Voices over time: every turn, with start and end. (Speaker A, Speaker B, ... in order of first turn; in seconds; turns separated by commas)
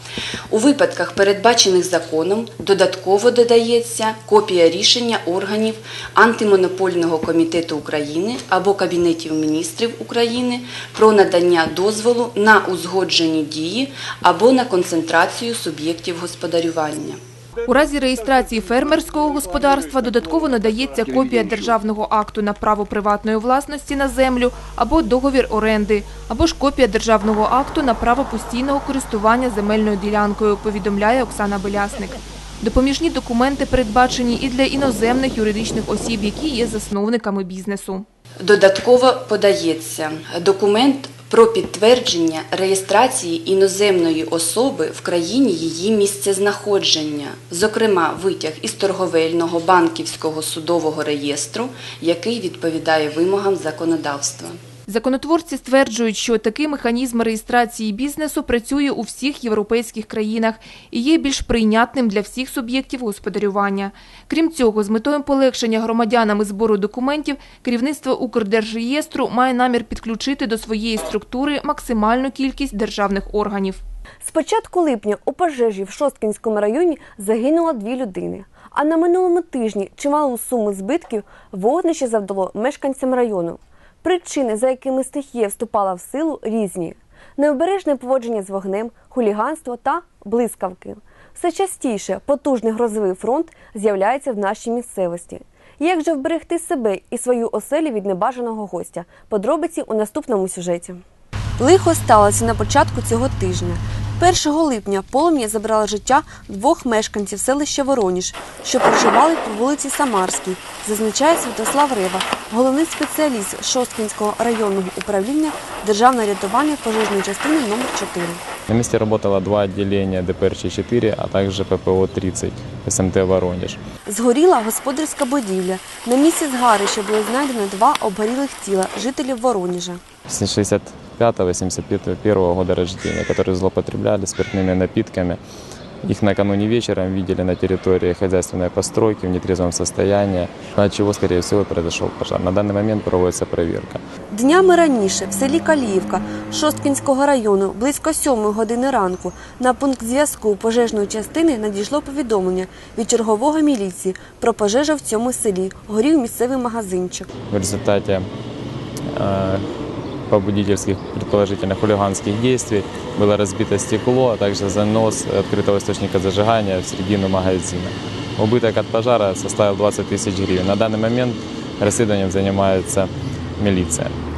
Speaker A: 0.5-17.2, Speaker B: 17.6-38.0, Speaker A: 38.4-54.6, Speaker B: 54.9-73.8, Speaker C: 74.2-101.0, Speaker C: 101.6-118.4, Speaker D: 118.7-123.8, Speaker C: 124.1-130.0, Speaker D: 130.3-135.4, Speaker D: 136.0-144.0, Speaker C: 144.3-157.3, Speaker D: 157.5-158.3, Speaker D: 159.2-159.6, Speaker D: 160.3-174.1